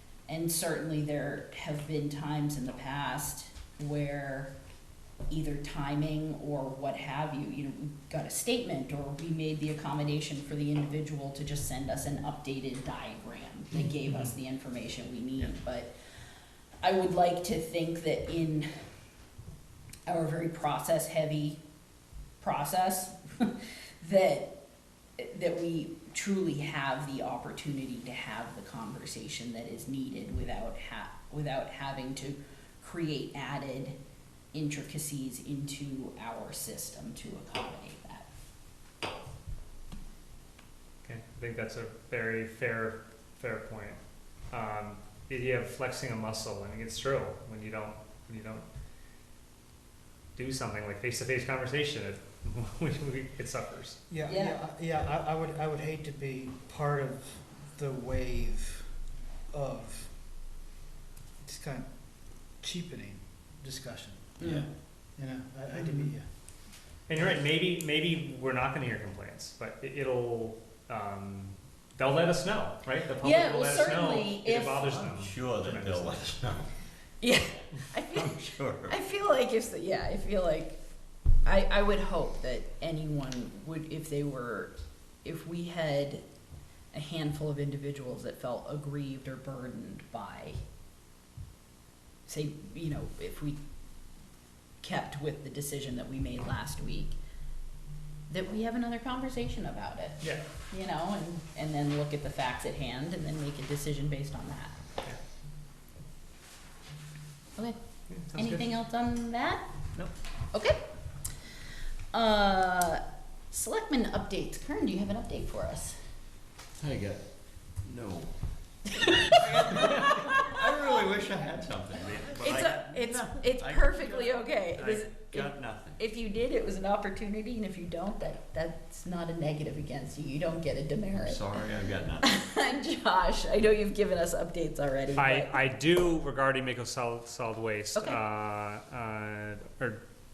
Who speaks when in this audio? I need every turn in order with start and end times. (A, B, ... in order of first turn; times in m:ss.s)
0:00.3-0:04.5 A
0:05.3-0:15.9 A
0:14.1-0:14.3 B
0:16.8-0:18.9 A
0:20.1-0:21.6 A
0:22.4-0:24.5 A
0:25.2-0:34.0 A
0:34.5-0:38.3 A
0:41.0-0:44.0 B
0:44.5-0:48.6 B
0:50.4-0:54.0 B
0:54.1-0:58.9 C
0:54.3-0:54.6 A
0:59.5-1:00.1 C
1:01.4-1:01.9 C
1:02.6-1:04.4 C
1:04.4-1:04.7 A
1:04.4-1:04.7 D
1:05.2-1:06.2 C
1:07.1-1:16.3 B
1:13.2-1:14.9 A
1:14.7-1:16.7 D
1:17.2-1:20.8 A
1:18.1-1:18.9 D
1:21.4-1:24.7 A
1:25.2-1:26.2 A
1:26.9-1:30.6 A
1:32.3-1:33.6 A
1:34.8-1:37.2 A
1:38.3-1:44.8 A
1:48.1-1:48.7 B
1:48.3-1:49.6 A
1:50.5-1:50.8 A
1:52.1-1:56.0 A
1:56.8-1:57.2 D
1:57.8-2:06.0 D
1:59.0-2:00.5 A
2:02.4-2:11.6 A
2:11.1-2:12.5 D
2:12.2-2:15.6 A
2:15.2-2:20.0 B